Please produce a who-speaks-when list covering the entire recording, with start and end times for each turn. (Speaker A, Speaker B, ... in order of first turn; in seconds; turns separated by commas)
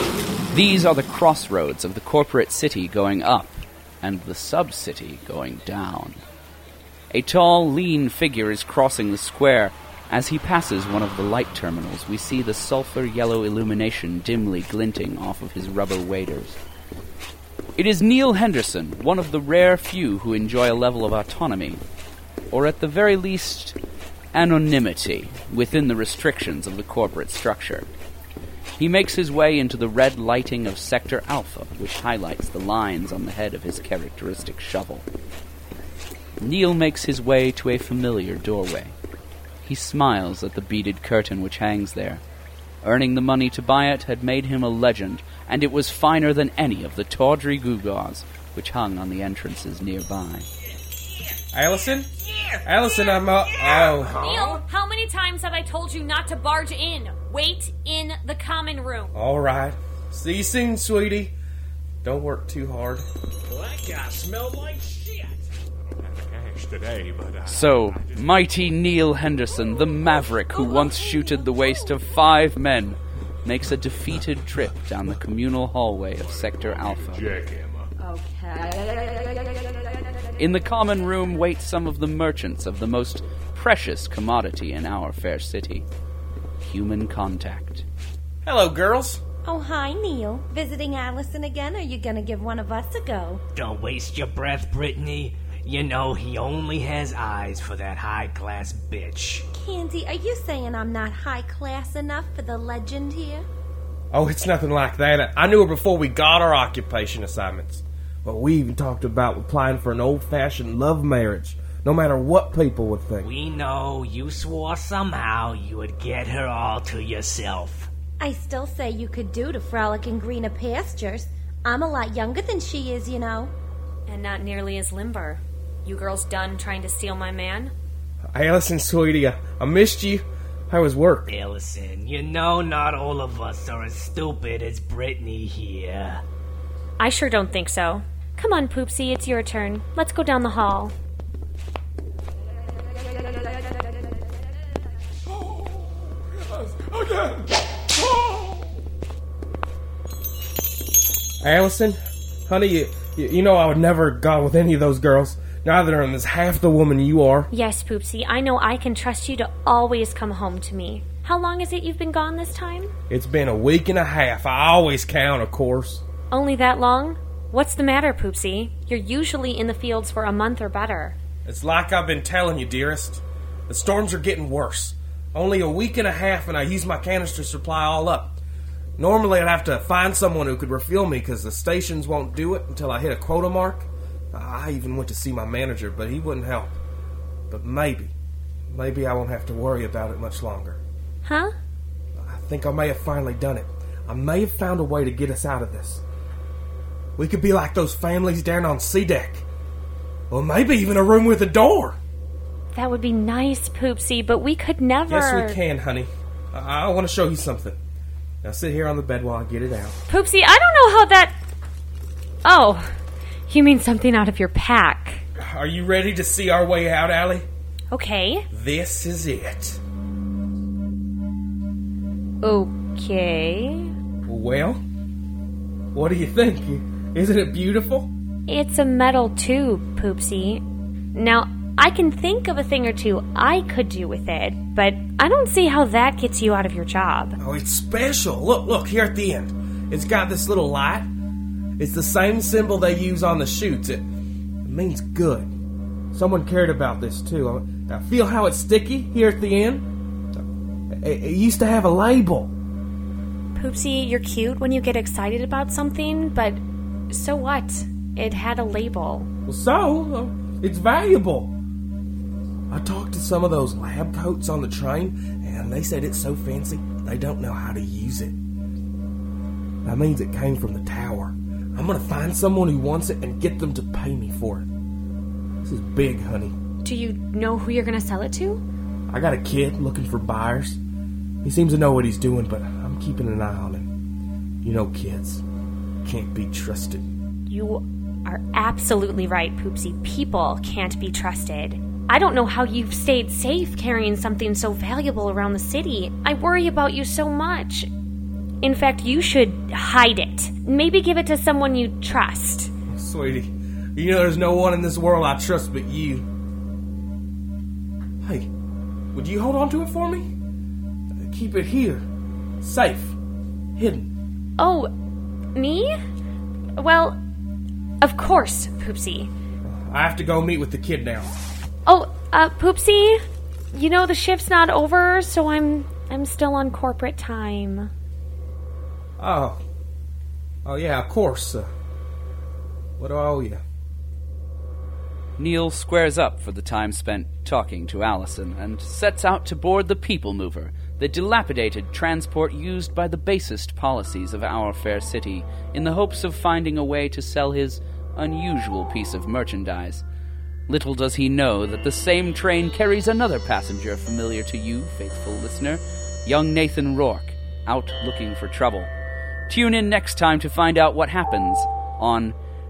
Speaker A: 0.5-6.2, Speaker A: 7.1-16.6, Speaker A: 17.8-21.8, Speaker A: 22.5-23.8, Speaker A: 24.3-27.9, Speaker A: 28.8-35.1, Speaker A: 36.4-38.9, Speaker A: 39.6-42.2, Speaker A: 42.8-50.5, Speaker B: 51.5-52.1, Speaker C: 52.2-52.7, Speaker B: 52.6-54.2, Speaker C: 53.2-54.6, Speaker D: 54.1-59.1, Speaker B: 59.1-61.3, Speaker B: 62.0-63.1, Speaker C: 63.6-65.3, Speaker E: 66.0-68.3, Speaker A: 67.5-77.3, Speaker E: 76.2-77.9, Speaker A: 80.4-85.8, Speaker A: 86.6-87.8, Speaker B: 88.5-89.2, Speaker F: 89.5-93.4, Speaker C: 93.5-99.5, Speaker F: 99.5-103.5, Speaker B: 104.1-113.3, Speaker C: 113.2-117.9, Speaker F: 118.2-123.5, Speaker D: 124.1-127.7, Speaker B: 128.3-131.3, Speaker C: 131.3-136.2, Speaker D: 137.0-140.9, Speaker B: 151.4-157.5, Speaker D: 157.5-162.9, Speaker B: 163.1-166.0, Speaker D: 166.3-171.2, Speaker B: 171.4-178.4, Speaker B: 179.0-186.8, Speaker B: 187.5-188.1, Speaker B: 188.7-190.8, Speaker D: 191.2-191.5, Speaker B: 192.2-196.0, Speaker B: 197.2-199.5, Speaker B: 200.3-202.0, Speaker D: 202.7-205.6, Speaker B: 205.1-207.8, Speaker B: 208.4-210.0, Speaker D: 210.1-211.3, Speaker D: 212.4-212.9, Speaker D: 213.5-215.2, Speaker B: 215.4-217.5, Speaker D: 217.9-218.5, Speaker B: 218.5-219.8, Speaker D: 222.4-223.9, Speaker B: 224.3-224.8, Speaker B: 225.9-228.1, Speaker D: 228.5-230.6, Speaker D: 231.1-237.4, Speaker B: 237.4-241.1, Speaker B: 241.8-244.0, Speaker B: 244.7-245.5, Speaker B: 246.1-249.9, Speaker B: 250.9-252.5, Speaker D: 253.6-259.3, Speaker B: 259.5-261.5, Speaker B: 262.7-268.4, Speaker B: 269.9-274.7, Speaker B: 275.6-276.6, Speaker D: 276.8-278.6, Speaker B: 279.1-280.8, Speaker B: 281.4-283.9, Speaker B: 284.6-285.4, Speaker B: 286.0-287.1, Speaker D: 287.5-297.9, Speaker D: 298.6-302.7, Speaker B: 302.9-306.3, Speaker B: 308.2-308.5, Speaker B: 309.1-310.3, Speaker B: 311.2-312.1, Speaker B: 312.6-313.2, Speaker B: 313.8-314.1, Speaker D: 314.6-314.9, Speaker D: 315.6-315.9, Speaker D: 316.8-317.2, Speaker D: 318.0-319.3, Speaker B: 319.6-321.3, Speaker D: 321.9-323.2, Speaker D: 323.7-327.9, Speaker B: 329.2-329.6, Speaker B: 330.6-331.7, Speaker B: 333.0-333.6, Speaker A: 335.4-350.1, Speaker A: 350.7-358.9, Speaker A: 359.5-362.4